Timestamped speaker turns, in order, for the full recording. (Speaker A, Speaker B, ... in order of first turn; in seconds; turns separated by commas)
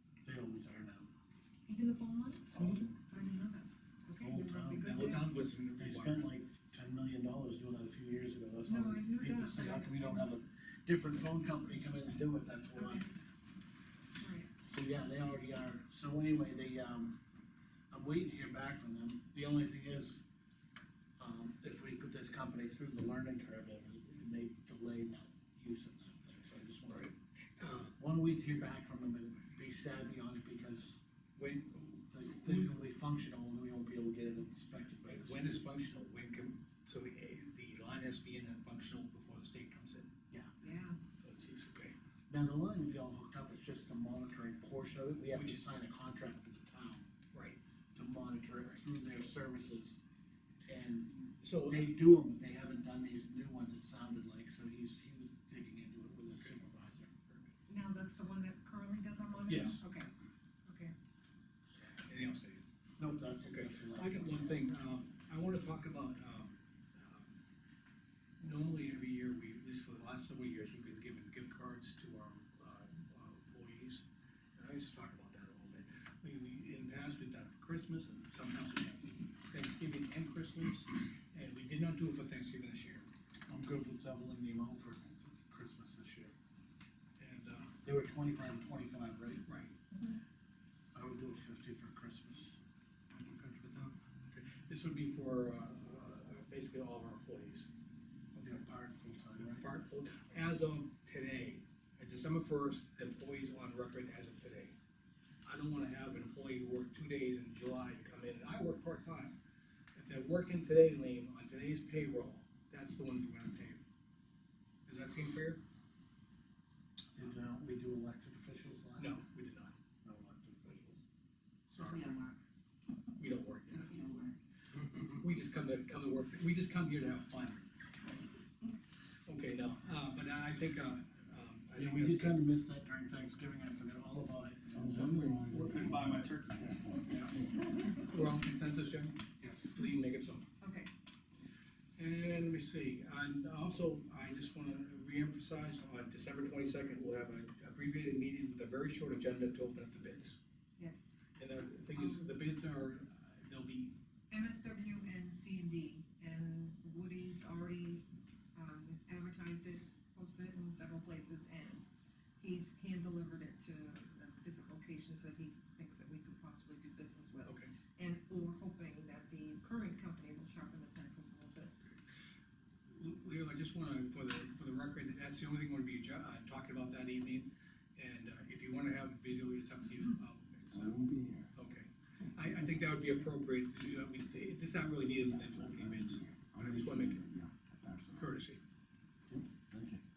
Speaker A: 0.2-1.1, Speaker B: 1.7-5.3, Speaker C: 2.5-2.9, Speaker A: 2.5-2.9, Speaker A: 4.2-5.2, Speaker C: 4.8-6.3, Speaker A: 5.8-13.0, Speaker B: 8.7-10.3, Speaker B: 12.8-13.1, Speaker B: 14.2-14.5, Speaker A: 14.7-17.2, Speaker A: 17.9-20.2, Speaker A: 21.2-27.1, Speaker C: 26.9-27.9, Speaker A: 28.0-31.0, Speaker C: 31.4-32.7, Speaker A: 32.1-35.6, Speaker C: 35.1-40.1, Speaker B: 40.6-41.0, Speaker C: 41.2-41.9, Speaker A: 42.3-47.1, Speaker C: 45.3-45.6, Speaker C: 47.3-47.6, Speaker A: 48.0-50.0, Speaker A: 50.7-57.1, Speaker C: 51.4-52.0, Speaker B: 57.7-60.1, Speaker C: 59.5-59.8, Speaker B: 60.6-60.9, Speaker C: 62.1-62.6, Speaker A: 63.0-64.6, Speaker C: 63.4-67.4, Speaker C: 68.4-74.0, Speaker C: 74.6-83.1, Speaker A: 83.5-86.3, Speaker C: 87.2-87.7, Speaker A: 87.8-89.5, Speaker C: 89.5-89.7, Speaker A: 90.9-92.6, Speaker C: 93.1-97.7, Speaker C: 98.3-98.6, Speaker A: 98.4-99.7, Speaker C: 99.4-104.8, Speaker C: 105.5-109.3, Speaker C: 110.0-113.8, Speaker C: 114.9-115.6, Speaker A: 117.2-119.2, Speaker C: 119.0-119.7, Speaker A: 120.0-121.0, Speaker C: 121.7-122.0, Speaker B: 121.8-122.4, Speaker C: 123.2-123.8, Speaker B: 123.7-124.4, Speaker C: 125.0-127.7, Speaker C: 129.3-132.4, Speaker A: 131.8-135.2, Speaker D: 134.8-137.1, Speaker C: 134.9-137.3, Speaker C: 138.0-140.4, Speaker B: 140.6-140.9, Speaker C: 142.0-150.4, Speaker B: 150.8-151.2, Speaker C: 151.4-153.9, Speaker B: 151.9-152.4, Speaker B: 154.3-161.8, Speaker B: 162.4-171.9, Speaker C: 167.5-167.7, Speaker C: 172.9-181.0, Speaker D: 180.7-181.5, Speaker C: 181.5-187.2, Speaker D: 185.2-188.3, Speaker C: 188.2-188.6, Speaker D: 189.3-190.0